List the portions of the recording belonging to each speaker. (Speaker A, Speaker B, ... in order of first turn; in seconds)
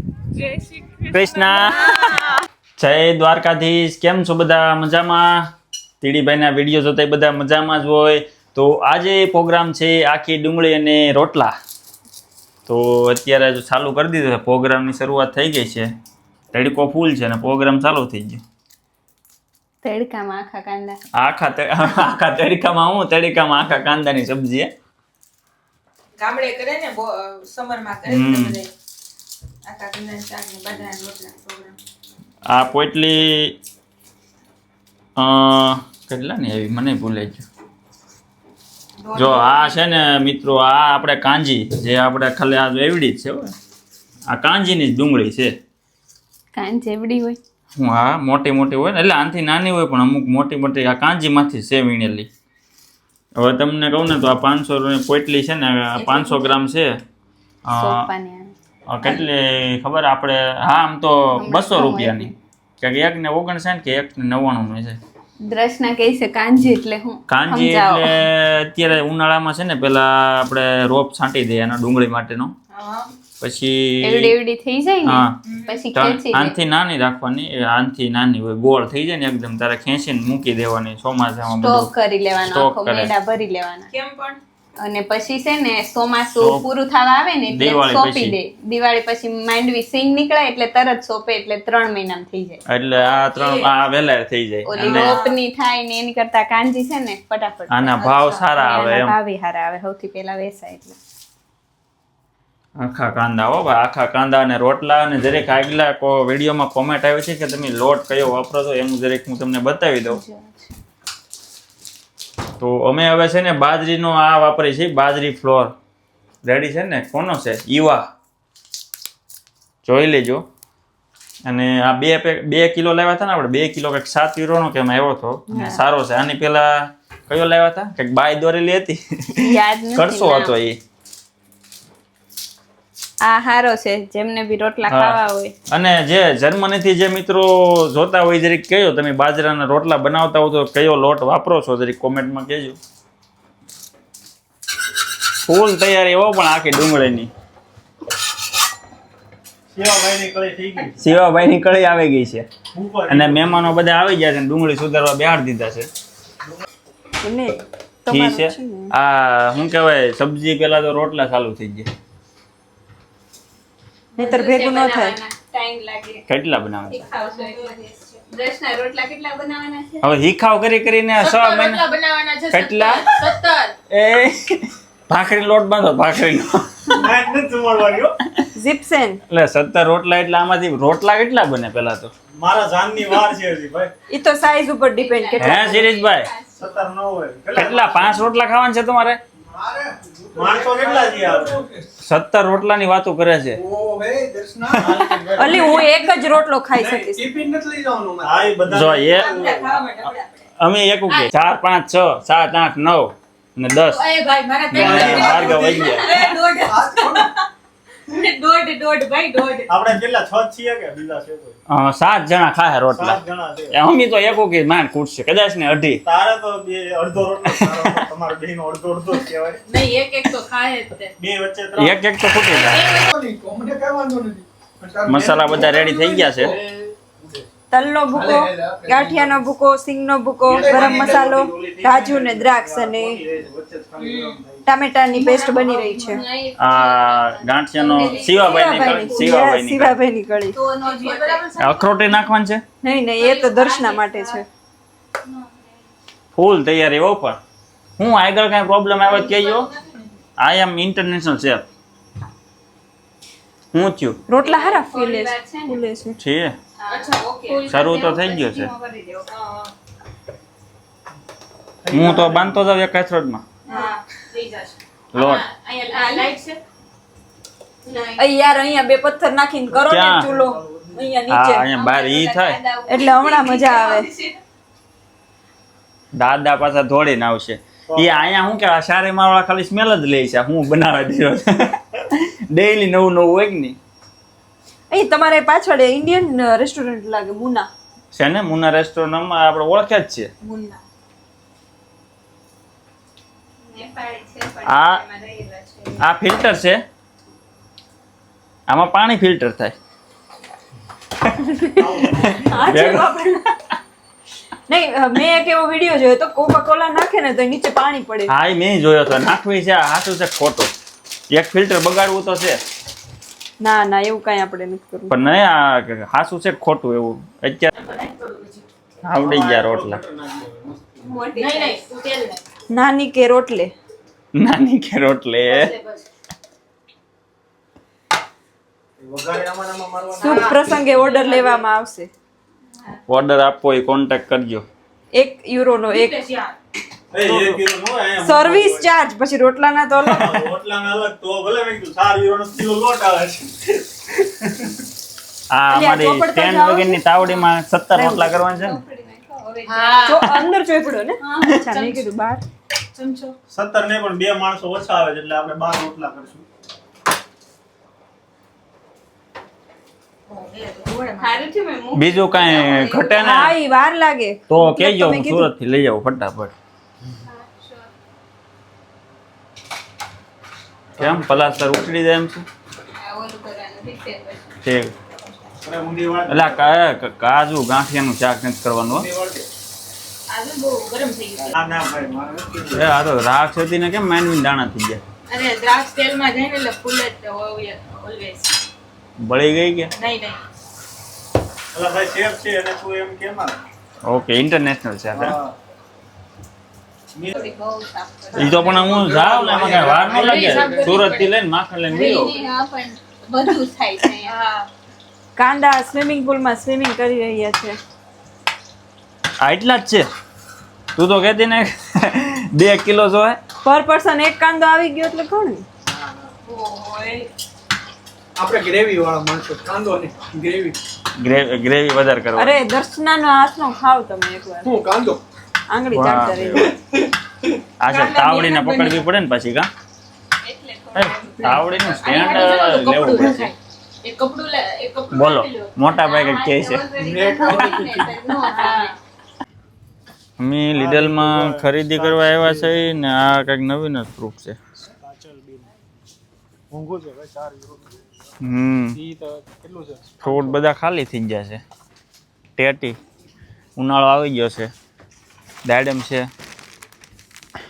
Speaker A: 0.3-2.4, 26.2-28.7, 29.6-31.8, 39.0-39.9, 55.9-56.6, 72.7-73.1, 75.4-75.8, 83.9-84.4, 93.0-93.7, 94.8-95.4, 98.0-98.8, 110.1-110.7, 167.1-168.2, 171.2-173.7, 198.9-200.4, 203.8-207.4, 208.1-209.8, 219.7-221.2, 222.5-223.1, 234.0-234.4, 235.1-236.2, 238.0-238.3, 240.8-242.2, 243.2-244.0, 249.0-250.1, 256.9-257.7, 259.3-259.7, 263.6-266.6, 290.4-290.8, 317.7-318.6, 321.4-322.4, 325.4-326.0, 330.2-331.6, 335.8-336.5, 349.6-350.5, 351.5-352.0, 352.9-353.3, 360.3-361.4, 380.3-381.5, 385.3-388.6, 390.0-390.4, 400.0-401.3, 401.9-402.6, 404.2-404.7, 416.4-417.3, 427.9-429.0, 431.9-435.8, 438.4-438.9
Speaker B: 1.1-1.8, 2.8-5.5, 6.0-11.6, 12.7-15.9, 16.5-18.4, 21.2-24.7, 28.1-28.6, 32.5-33.5, 35.2-37.4, 39.1-43.5, 44.3-45.5, 47.8-52.3, 53.4-56.9, 57.7-58.0, 58.9-65.0, 67.3-72.5, 73.4-74.3, 75.0-75.3, 75.9-81.9, 82.5-83.1, 86.4-86.6, 87.5-88.4, 92.7-95.2, 97.7-99.2, 102.8-110.2, 112.6-115.7, 116.4-118.1, 119.8-120.4, 121.5-130.8, 134.9-135.2, 135.7-142.8, 145.4-147.3, 151.0-152.4, 153.1-155.9, 158.1-161.9, 166.3-167.0, 170.0-171.8, 172.5-173.1, 173.9-177.1, 179.3-182.1, 185.4-186.3, 187.5-189.2, 192.0-193.6, 198.7-199.3, 200.6-204.0, 204.7-206.3, 211.7-213.2, 213.7-216.0, 217.5-218.0, 221.8-222.9, 225.1-226.6, 236.6-239.9, 241.6-242.6, 246.3-247.4, 248.0-249.7, 250.4-251.7, 253.7-254.2, 256.2-256.6, 257.7-258.7, 261.9-263.4, 265.1-265.4, 269.9-270.3, 271.3-272.6, 276.1-283.8, 288.1-290.3, 294.6-295.0, 296.0-296.8, 298.7-299.7, 301.3-303.1, 308.3-310.7, 311.3-312.6, 315.1-317.7, 319.0-320.0, 324.3-325.7, 333.1-334.6, 345.5-348.8, 361.9-363.6, 364.5-366.5, 371.0-372.4, 374.6-374.9, 376.3-379.1, 382.7-385.0, 389.2-389.9, 394.1-395.4, 398.3-402.3, 409.4-410.1, 410.9-413.4, 421.2-422.6, 425.9-426.7, 427.8-429.7, 430.9-433.5, 435.1-436.9, 437.5-437.8, 440.4-444.6, 448.4-449.0, 450.2-451.6, 452.6-453.0, 453.8-454.7, 455.6-456.3
Speaker C: 19.8-21.0, 46.5-47.4, 57.8-59.2, 61.3-62.3, 65.4-68.2, 74.0-76.5, 81.6-83.9, 84.8-92.6, 94.7-101.0, 125.5-125.8, 129.3-130.6, 133.2-135.5, 164.2-166.2, 166.8-170.1, 185.0-186.9, 236.0-239.3, 240.5-241.4, 243.5-244.2, 254.4-255.8, 256.8-259.3, 265.9-266.3, 267.8-268.2, 271.7-274.3, 293.6-296.0, 321.0-321.8, 348.3-350.3, 361.2-363.2, 367.2-367.9, 373.0-374.6, 397.3-398.9, 401.9-404.3, 430.4-432.7, 435.9-438.9
Speaker D: 149.7-151.0, 152.7-153.8, 176.9-178.1, 182.3-183.9, 186.6-188.2, 190.3-191.6, 194.7-195.8, 198.2-199.8, 204.9-206.0, 209.7-211.6, 212.9-213.8, 216.1-219.6, 221.2-222.0, 225.1-227.5, 230.4-234.7, 261.8-262.6, 269.7-271.1, 301.8-302.6, 319.2-321.2, 329.0-330.6, 337.1-338.9, 340.0-344.5, 353.5-356.4, 371.0-371.7, 375.6-376.7, 378.9-379.5, 381.5-382.9, 391.7-393.6, 395.1-395.6, 399.0-400.6, 437.0-438.1, 440.7-442.9, 444.8-445.7, 446.7-448.1, 448.9-450.6
Speaker E: 157.2-158.9, 164.2-165.2, 178.5-179.2, 184.1-185.9, 195.3-197.2, 227.7-233.2, 234.7-236.2, 238.4-240.6, 242.8-244.4, 254.3-256.2, 268.2-271.6, 272.9-274.1, 284.9-287.7, 302.5-303.4, 304.7-308.3, 313.6-315.2, 322.7-323.7, 330.2-332.1, 335.1-336.1, 338.2-340.4, 345.7-347.0, 347.9-348.4, 350.1-352.4, 363.2-365.5, 405.4-407.8, 413.6-415.6, 422.4-424.7, 425.7-426.7
Speaker F: 189.5-191.9, 193.5-198.8, 204.8-205.2, 206.6-207.3, 223.1-225.8, 226.3-226.8, 228.1-229.4, 230.5-231.3, 398.6-400.9, 418.4-420.8, 424.6-425.2